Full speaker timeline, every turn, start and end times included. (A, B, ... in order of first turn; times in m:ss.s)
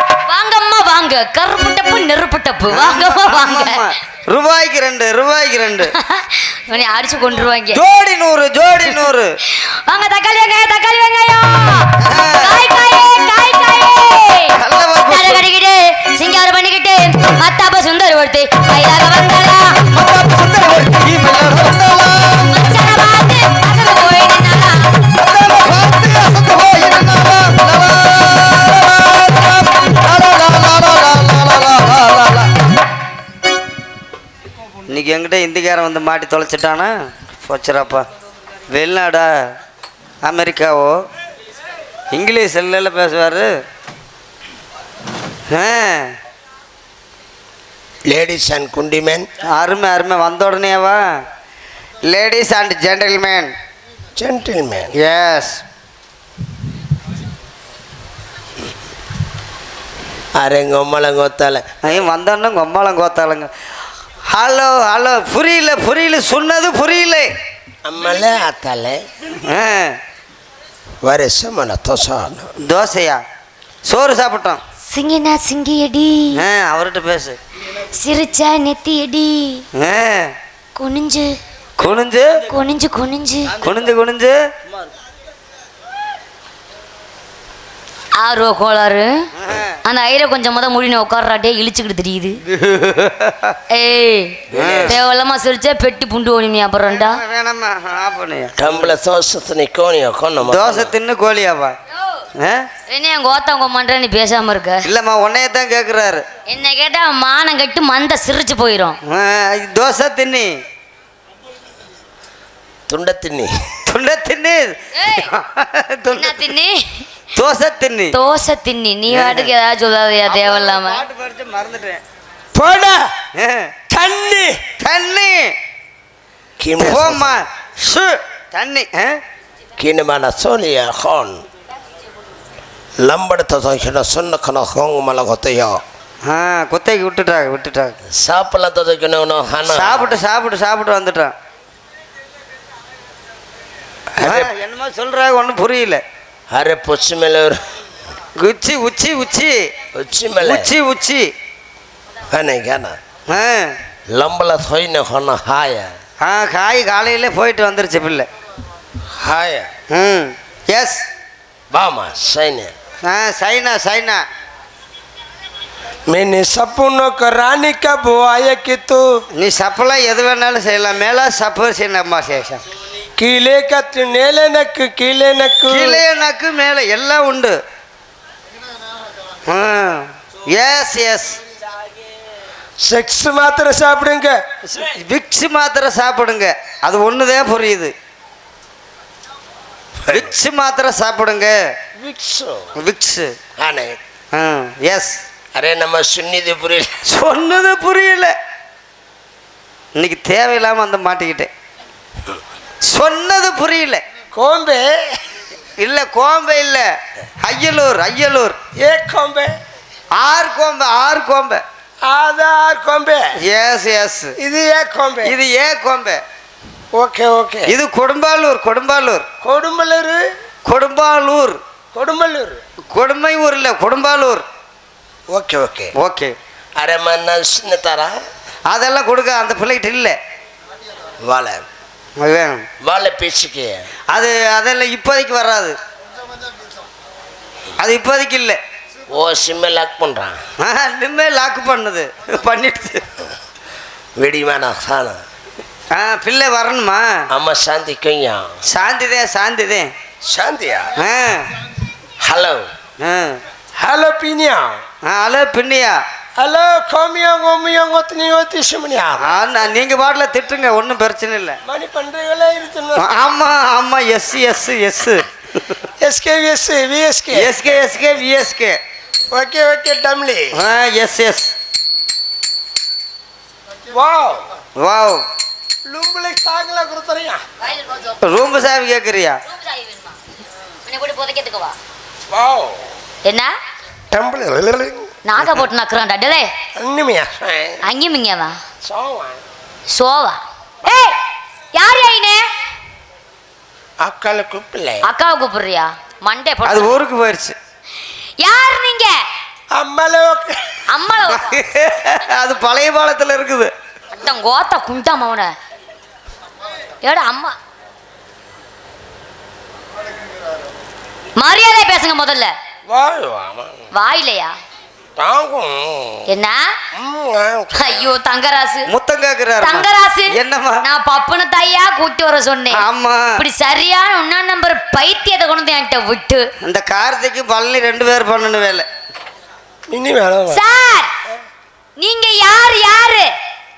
0:00.2-0:03.9 A
0:02.7-0:05.9 B
0:05.9-0:07.8 A
0:07.7-0:09.4 B
0:09.5-0:19.8 A
0:12.0-0:12.6 B
0:14.6-0:15.4 B
0:19.9-0:22.5 B
0:22.4-0:25.0 A
0:25.1-0:32.5 B
0:34.9-0:38.0 B
0:38.7-0:39.5 B
0:40.2-0:41.0 B
0:42.1-0:43.6 B
0:45.5-0:46.2 B
0:48.1-0:49.3 C
0:49.5-0:51.2 B
0:52.0-0:53.5 B
0:54.2-0:54.9 C
0:54.9-0:55.6 B
1:00.3-1:01.6 C
1:01.8-1:03.5 B
1:04.3-1:07.3 B
1:07.8-1:09.0 C
1:09.4-1:10.0 B
1:11.0-1:12.5 C
1:12.6-1:13.2 B
1:13.8-1:14.6 B
1:14.8-1:16.4 A
1:16.3-1:17.4 B
1:17.8-1:19.6 A
1:19.8-1:20.3 B
1:20.8-1:21.3 A
1:21.8-1:22.4 B
1:22.4-1:23.6 A
1:23.5-1:24.4 B
1:28.2-1:29.1 A
1:29.4-1:29.8 B
1:29.8-1:32.4 A
1:32.5-1:33.6 B
1:33.7-1:37.2 A
1:34.5-1:34.9 C
1:34.5-1:35.0 B
1:36.9-1:38.9 B
1:38.6-1:40.9 C
1:40.4-1:41.7 B
1:42.4-1:42.7 B
1:42.9-1:44.8 A
1:44.8-1:46.2 B
1:46.5-1:49.0 A
1:49.1-1:50.5 B
1:52.9-1:53.5 C
1:53.9-1:56.5 B
1:54.9-1:55.3 A
1:56.1-1:57.0 A
1:57.3-1:58.1 B
1:58.1-2:01.0 A
1:59.1-1:59.5 B
2:00.2-2:02.0 B
2:02.5-2:03.1 C
2:03.4-2:03.7 B
2:03.9-2:04.6 C
2:04.8-2:05.5 B
2:06.6-2:07.4 C
2:06.8-2:09.2 B
2:09.8-2:11.4 C
2:13.0-2:15.8 C
2:16.2-2:18.0 B
2:18.1-2:20.2 C
2:19.7-2:21.3 B
2:24.2-2:24.5 C
2:24.2-2:26.0 B
2:26.5-2:27.6 C
2:28.4-2:29.6 B
2:29.9-2:30.7 C
2:30.4-2:31.3 B
2:32.3-2:33.0 C
2:33.3-2:33.7 B
2:34.1-2:36.0 C
2:36.2-2:38.3 B
2:39.2-2:39.7 C
2:39.9-2:41.0 B
2:41.7-2:42.7 C
2:43.0-2:44.2 B
2:46.1-2:49.2 C
2:49.3-2:52.6 B
2:53.2-2:56.0 C
2:55.7-2:57.6 B
2:59.4-3:01.4 B
3:02.8-3:04.4 C
3:04.6-3:07.9 B
3:10.0-3:10.3 C
3:10.1-3:11.6 B
3:12.0-3:12.7 C
3:12.8-3:13.4 B
3:13.6-3:14.0 C
3:14.3-3:15.2 B
3:15.5-3:17.0 C
3:17.1-3:18.4 B
3:19.9-3:21.5 B
3:22.8-3:24.0 B
3:24.3-3:24.9 C
3:25.8-3:26.9 B
3:27.4-3:28.6 B
3:28.8-3:29.6 C
3:30.2-3:31.6 B
3:32.0-3:33.3 C
3:33.4-3:34.4 B
3:34.4-3:35.3 C
3:35.2-3:36.2 B
3:36.9-3:37.7 C
3:37.6-3:39.2 B
3:39.4-3:40.2 C
3:40.6-3:41.6 B
3:41.9-3:42.6 C
3:42.9-3:44.4 B
3:45.3-3:45.9 C
3:45.9-3:46.4 B
3:46.8-3:48.2 C
3:48.7-3:50.2 B
3:51.2-3:51.6 C
3:52.2-3:52.7 B
3:52.8-3:53.9 C
3:54.1-3:55.8 B
3:57.8-3:58.6 B
3:59.1-4:00.4 C
4:00.6-4:03.2 B
4:04.2-4:05.2 C
4:05.9-4:07.2 B
4:07.3-4:08.5 C
4:08.7-4:09.9 B
4:10.2-4:10.9 C
4:11.0-4:11.5 B
4:12.2-4:12.7 C
4:13.0-4:13.4 B
4:13.8-4:14.8 C
4:15.0-4:16.0 B
4:16.4-4:19.3 C
4:19.2-4:21.6 B
4:21.7-4:23.0 C
4:23.0-4:25.6 B
4:26.0-4:27.8 C
4:27.3-4:28.8 B
4:29.3-4:30.6 C
4:30.5-4:31.5 B
4:33.9-4:34.5 C
4:34.8-4:35.2 B
4:35.8-4:37.4 C
4:38.2-4:39.4 B
4:39.5-4:40.2 A
4:40.8-4:41.8 A
4:42.3-4:42.8 C
4:43.2-4:43.5 A
4:44.1-4:45.1 C
4:45.2-4:46.5 A
4:46.8-4:47.8 C
4:47.8-4:48.6 A
4:48.8-4:49.4 C
4:49.9-4:51.2 A
4:51.7-4:52.4 A
4:54.0-4:55.0 C
4:55.0-4:57.0 A
4:56.6-4:57.6 B
4:58.4-4:59.1 A
4:59.7-5:00.6 C
5:00.9-5:01.6 A
5:01.3-5:03.7 B
5:04.1-5:05.5 A
5:07.0-5:07.5 A
5:11.4-5:12.5 A
5:12.9-5:13.8 C
5:13.9-5:14.6 A
5:15.2-5:16.3 C
5:16.3-5:16.7 A
5:16.9-5:18.1 C
5:17.8-5:18.9 A
5:18.9-5:20.8 B
5:19.6-5:22.8 A
5:22.7-5:23.4 B
5:23.4-5:26.4 A
5:26.6-5:28.8 B
5:29.9-5:30.6 C
5:30.5-5:31.1 A
5:32.0-5:33.3 A